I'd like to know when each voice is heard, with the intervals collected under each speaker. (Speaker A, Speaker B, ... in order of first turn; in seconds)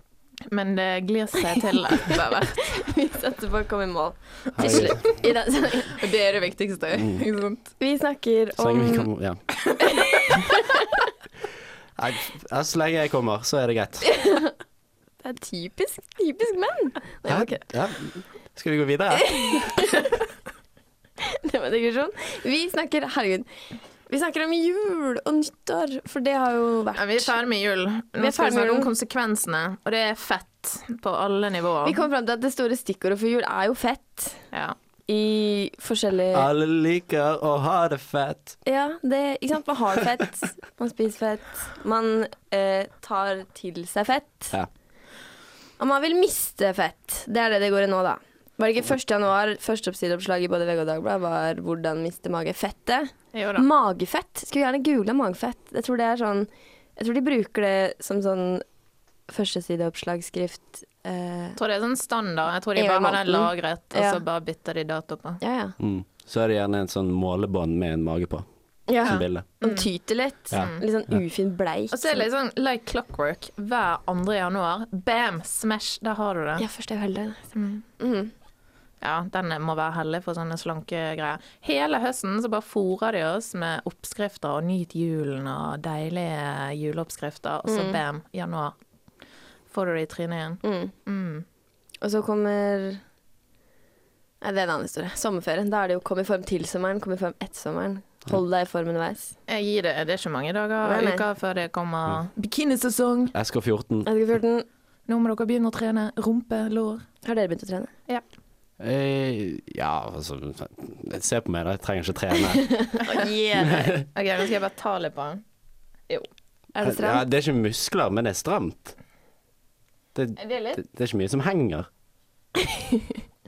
Speaker A: 0.5-2.9, 4.6-5.3, 5.9-7.7, 27.0-32.0, 53.3-53.7, 61.6-65.4, 69.0-69.9, 70.5-70.8, 71.9-76.7, 77.5-77.8, 79.0-88.8, 89.7-91.5, 99.5-103.3, 105.1-107.1, 114.2-115.4, 120.4-120.8
Speaker B: 2.7-6.1, 7.8-9.1, 9.8-10.9, 14.0-14.5, 15.2-17.6, 19.1-20.2, 21.2-23.5, 24.1-27.3, 28.2-28.9, 31.9-34.4, 35.1-36.5, 38.6-44.5, 45.8-58.6, 59.3-61.6, 62.8-64.2, 65.4-65.8, 68.9-72.3, 76.6-78.3, 87.7-88.0, 90.6-90.9, 92.0-93.0, 94.4-99.3, 100.8-101.2, 104.1-104.7, 107.2-107.9, 112.6-113.9, 116.8-117.2, 122.6-123.1
Speaker C: 4.6-5.1, 6.9-7.2, 8.6-9.4, 12.0-14.2, 17.3-19.8, 36.3-38.6, 65.8-68.5, 69.0-69.5, 70.5-71.2, 103.3-104.1, 108.8-112.7, 113.6-114.1, 116.8-119.0, 120.2-121.9